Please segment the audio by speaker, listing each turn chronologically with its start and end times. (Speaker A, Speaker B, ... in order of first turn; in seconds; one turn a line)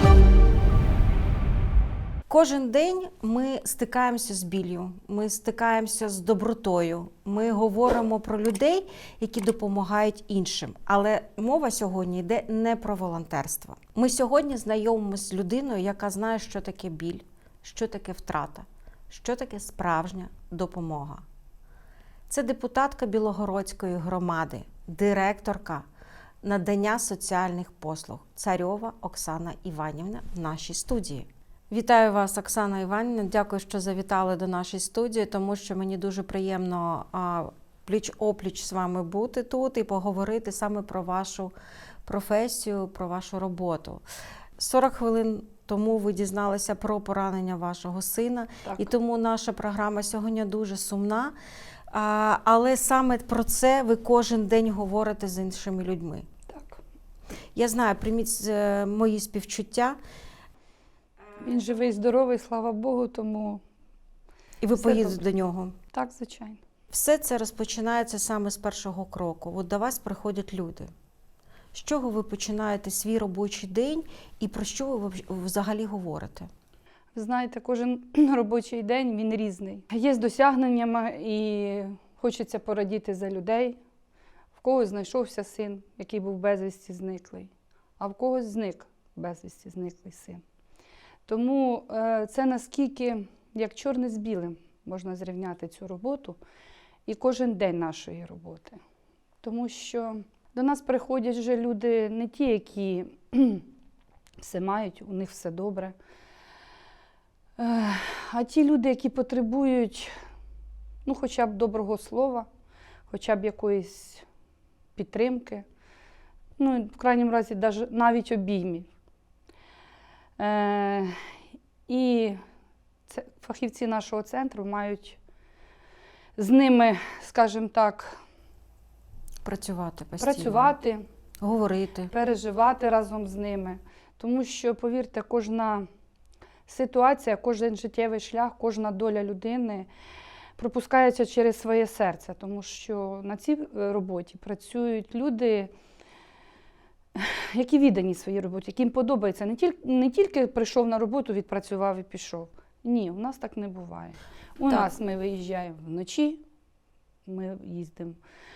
Speaker A: 2.3-21.2
Speaker A: 22.3-25.9
Speaker A: 26.4-41.5
Speaker A: 42.0-44.0
Speaker A: 44.6-51.3
Speaker B: 48.6-48.9
Speaker A: 51.9-56.2
Speaker B: 56.5-56.8
Speaker A: 57.6-60.0
Speaker B: 61.4-63.6
Speaker A: 64.6-65.8
Speaker B: 64.8-65.2
Speaker B: 65.9-66.6
Speaker A: 66.9-70.9
Speaker A: 71.7-76.5
Speaker B: 77.1-83.8
Speaker B: 84.6-90.4
Speaker B: 91.2-96.4
Speaker B: 97.1-98.8
Speaker B: 99.4-103.7
Speaker B: 104.4-106.0
Speaker B: 107.6-110.2
Speaker B: 111.0-112.5
Speaker B: 113.1-114.2
Speaker B: 114.9-115.7
Speaker B: 116.6-118.9
Speaker B: 120.4-121.3
Speaker B: 121.9-122.4
Speaker B: 123.1-125.2
Speaker B: 126.4-128.2
Speaker A: 129.4-130.7
Speaker B: 130.2-131.0
Speaker A: 131.4-132.1
Speaker B: 132.1-135.9
Speaker B: 136.7-139.9
Speaker B: 140.6-145.7
Speaker B: 147.2-156.4
Speaker B: 157.2-158.2